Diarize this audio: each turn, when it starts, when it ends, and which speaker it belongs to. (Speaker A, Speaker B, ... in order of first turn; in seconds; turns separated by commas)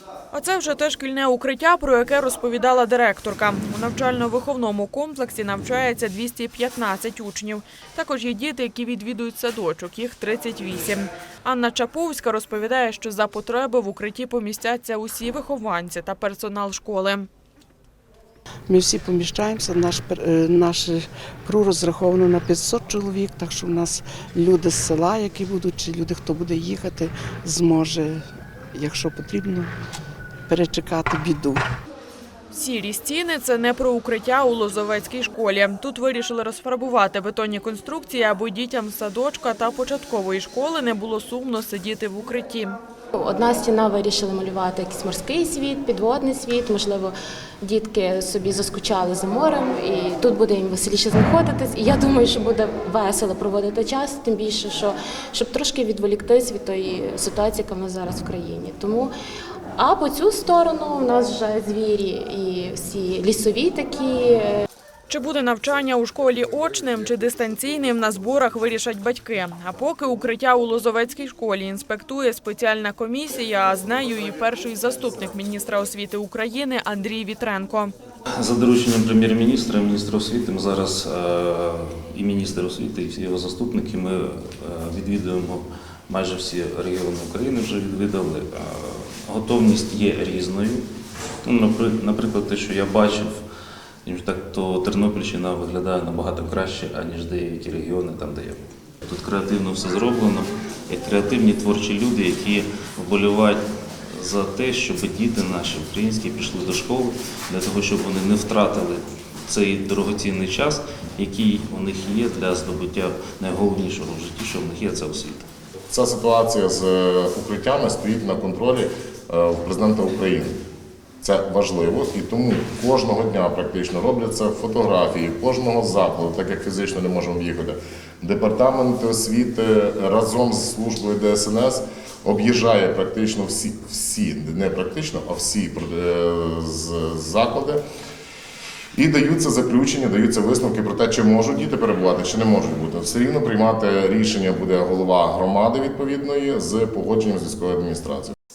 Speaker A: 0.3-17.3, Speaker B: 18.7-28.2, Speaker B: 28.7-29.7, Speaker B: 30.5-31.6, Speaker A: 32.5-42.8, Speaker C: 43.1-59.1, Speaker C: 59.8-64.6, Speaker A: 65.1-77.9, Speaker D: 78.4-90.8, Speaker D: 91.4-93.4, Speaker D: 94.0-115.5, Speaker E: 115.9-120.5, Speaker E: 121.2-137.8, Speaker E: 138.9-148.3